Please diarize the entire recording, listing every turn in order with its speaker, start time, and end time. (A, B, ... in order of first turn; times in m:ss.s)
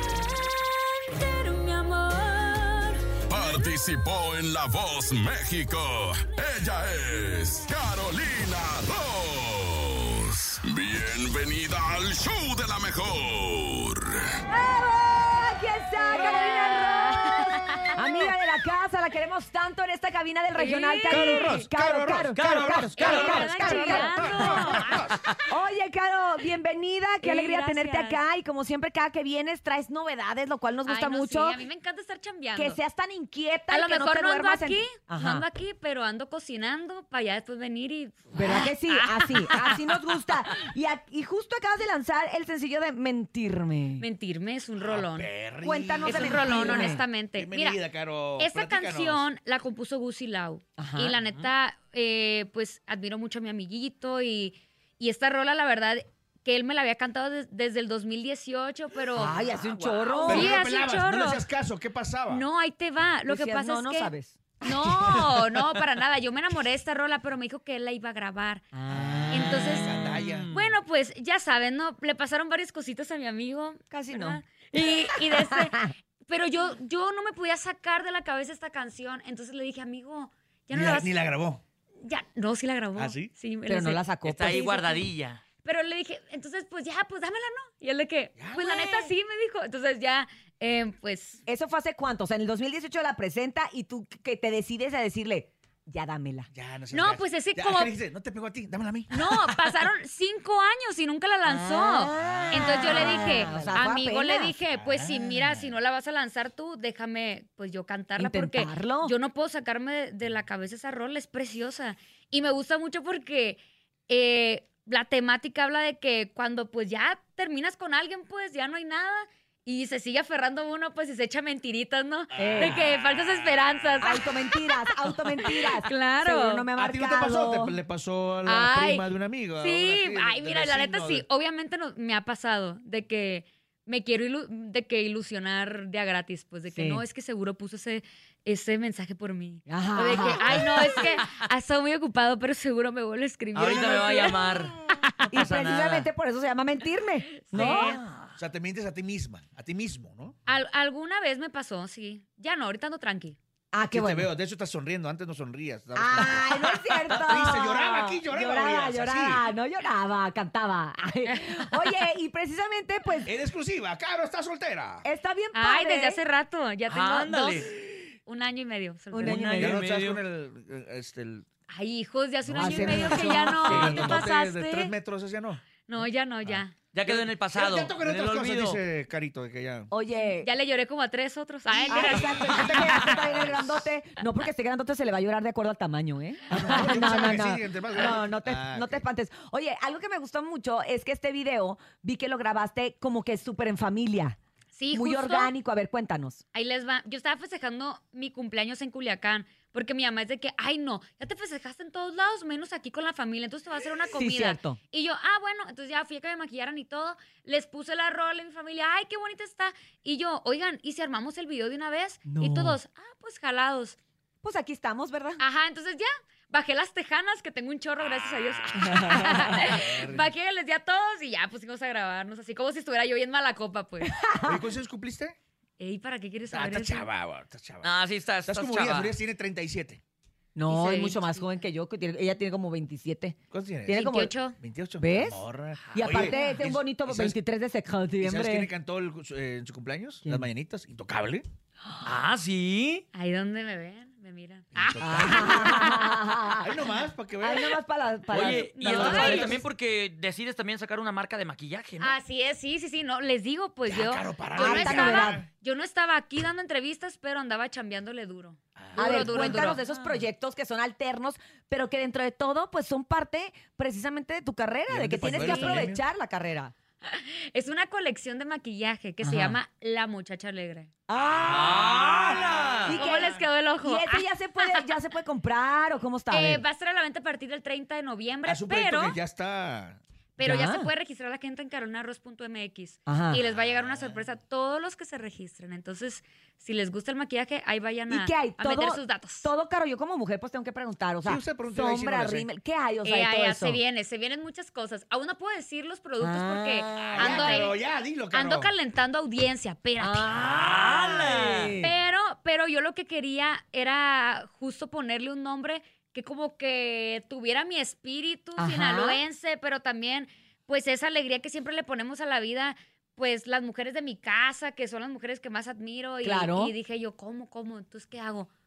0:00.5-0:03.7 A
0:03.3-0:14.2 B
0:14.5-0:24.9 C
0:16.0-0:18.3 A
0:20.6-0:21.6 A
0:21.1-0:25.2 D
0:22.3-0:23.6 E
0:23.0-0:25.0 A
0:24.8-0:25.4 E
0:25.5-0:31.6 C
0:27.2-0:28.2 A
0:30.8-0:32.8 A
0:32.5-0:35.5 C
0:33.7-0:40.1 A
0:38.3-0:44.1 C
0:44.0-0:45.3 A
0:44.8-0:49.3 D
0:45.6-0:47.0 C
0:46.0-0:47.8 A
0:48.4-0:59.4 A
0:50.8-0:51.2 C
0:59.1-1:00.5 C
0:59.6-1:00.0 E
1:00.0-1:01.4 A
1:00.3-1:02.4 D
1:02.3-1:08.6 A
1:03.3-1:05.3 C
1:08.7-1:09.8 C
1:08.9-1:10.5 D
1:09.3-1:09.9 A
1:09.9-1:10.8 E
1:10.5-1:21.1 A
1:13.9-1:14.5 C
1:15.3-1:15.9 C
1:20.7-1:21.6 D
1:22.0-1:25.1 A
1:23.0-1:23.3 D
1:23.7-1:24.8 C
1:24.2-1:25.4 E
1:25.6-1:31.4 A
1:28.4-1:28.8 D
1:28.7-1:29.1 E
1:31.5-1:36.5 C
1:36.5-1:39.6 D
1:36.9-1:37.9 A
1:39.1-2:06.7 A
1:41.4-1:44.6 C
1:42.6-1:43.3 D
1:44.8-1:45.7 D
1:48.2-1:49.1 C
2:02.4-2:02.8 C
2:04.0-2:07.8 C
2:06.8-2:11.2 D
2:08.5-2:24.6 A
2:16.7-2:17.0 C
2:19.7-2:21.2 C
2:20.2-2:21.3 E
2:23.5-2:26.1 E
2:23.6-2:24.3 D
2:25.3-2:28.0 C
2:27.3-2:28.0 A
2:27.5-2:28.3 E
2:28.4-2:30.4 D
2:30.5-2:33.4 A
2:33.7-2:34.3 C
2:33.9-2:39.5 D
2:36.0-2:43.4 C
2:41.3-2:41.6 A
2:43.2-2:45.1 D
2:45.0-2:46.2 C
2:45.5-2:49.5 A
2:46.9-2:47.7 E
2:49.1-2:49.8 C
2:49.2-2:50.2 E
2:49.5-2:51.5 D
2:51.7-2:54.9 A
2:52.4-2:55.6 D
2:52.6-2:53.9 C
2:53.4-2:54.3 E
2:55.9-2:56.8 A
2:56.4-2:59.9 D
2:56.9-2:58.8 E
2:59.9-3:00.5 C
3:00.2-3:03.2 A
3:01.8-3:14.4 C
3:01.8-3:03.9 D
3:06.5-3:09.1 D
3:14.7-3:15.5 A
3:14.9-3:16.4 C
3:16.5-3:34.0 A
3:24.1-3:24.8 C
3:32.3-3:32.8 C
3:34.4-3:35.4 C
3:35.4-3:44.1 A
3:38.9-3:39.2 C
3:39.0-3:40.3 D
3:44.0-3:44.6 C
3:44.4-3:45.4 D
3:45.8-3:47.1 A
3:46.5-3:47.9 D
3:47.8-3:49.2 E
3:48.5-3:50.0 D
3:50.6-3:54.3 C
3:50.7-3:51.7 A
3:53.5-3:57.4 D
3:53.9-3:54.6 A
3:55.0-3:58.7 C
3:56.2-3:56.6 A
3:58.2-4:01.4 D
4:00.2-4:00.5 C
4:02.0-4:03.0 E
4:03.1-4:06.2 A
4:04.7-4:05.9 D
4:05.0-4:06.8 C
4:06.6-4:07.8 D
4:07.4-4:09.6 C
4:08.3-4:12.2 E
4:08.4-4:09.6 A
4:08.8-4:09.6 D
4:12.0-4:19.8 A
4:13.8-4:15.5 D
4:14.6-4:15.4 C
4:18.8-4:19.7 D
4:19.0-4:26.7 C
4:19.8-4:20.2 E
4:24.9-4:26.0 D
4:25.3-4:25.9 A
4:27.0-4:30.9 A
4:29.2-4:29.6 C
4:31.1-4:36.6 C
4:31.4-4:33.0 E
4:33.0-4:34.9 A
4:36.3-4:39.2 A
4:38.5-4:40.0 D
4:40.4-4:49.5 A
4:40.4-4:40.9 C
4:43.1-4:43.4 C
4:48.1-4:53.8 C
4:51.2-4:52.5 D
4:53.0-4:57.8 A
4:56.2-4:57.6 C
4:57.0-4:57.4 E
4:57.2-4:58.7 D
4:58.3-5:00.4 A
5:00.0-5:02.0 C
5:00.3-5:01.8 E
5:01.8-5:18.5 A
5:08.6-5:09.2 C
5:16.2-5:16.8 C